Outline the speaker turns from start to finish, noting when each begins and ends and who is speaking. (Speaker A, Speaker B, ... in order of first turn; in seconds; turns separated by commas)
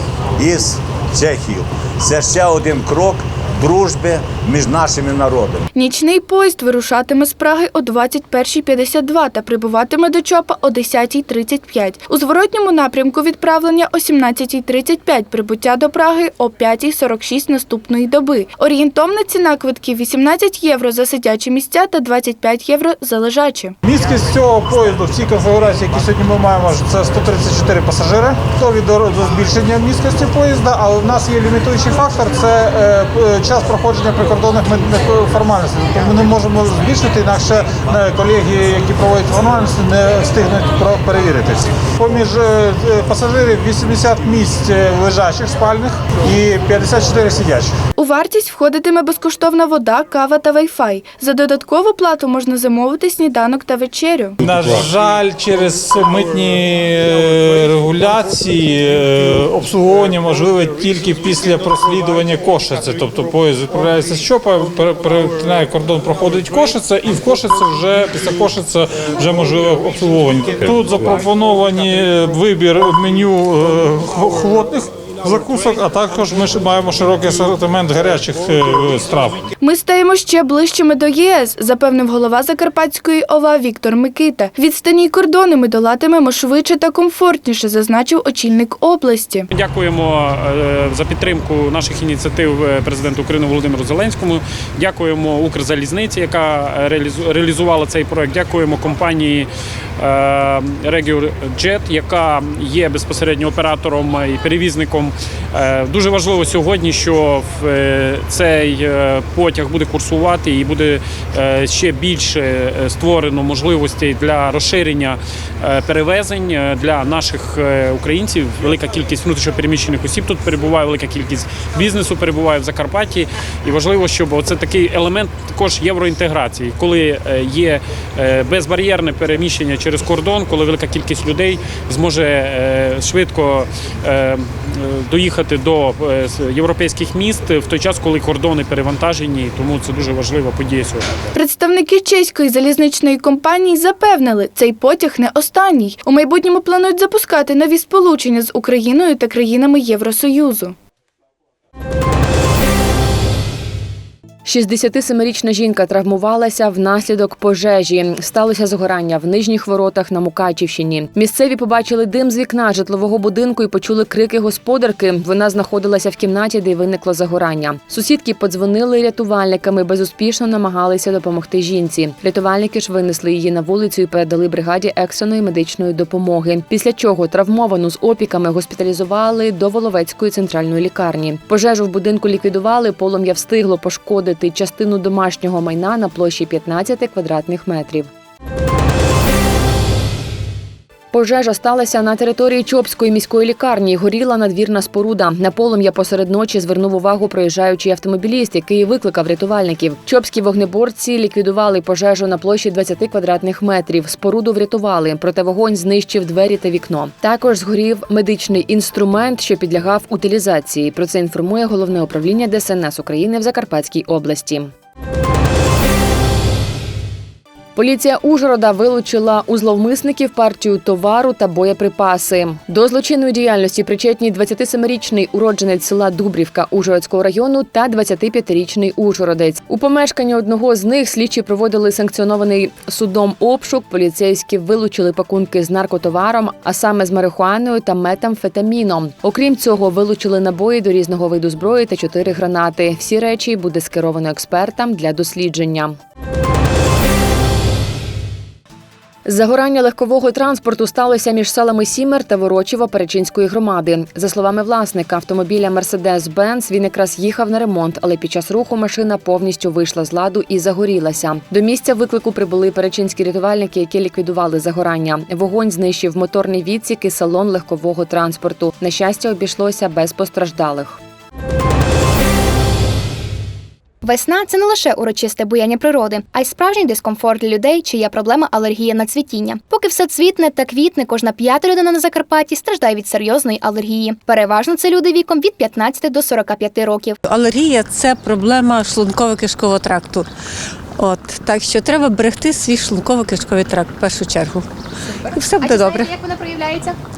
Speaker A: 0.4-5.7, Speaker B: 5.7-23.7, Speaker C: 23.8-47.8, Speaker B: 48.0-54.4, Speaker C: 54.4-79.4, Speaker B: 79.6-89.5, Speaker D: 89.5-99.5, Speaker D: 100.0-141.1, Speaker B: 141.3-150.7, Speaker E: 154.4-188.1, Speaker E: 191.1-214.7, Speaker E: 217.8-245.9, Speaker E: 249.2-271.0, Speaker F: 274.0-287.1, Speaker G: 287.3-290.2, Speaker G: 291.0-294.6, Speaker F: 295.2-296.9, Speaker G: 295.4-296.0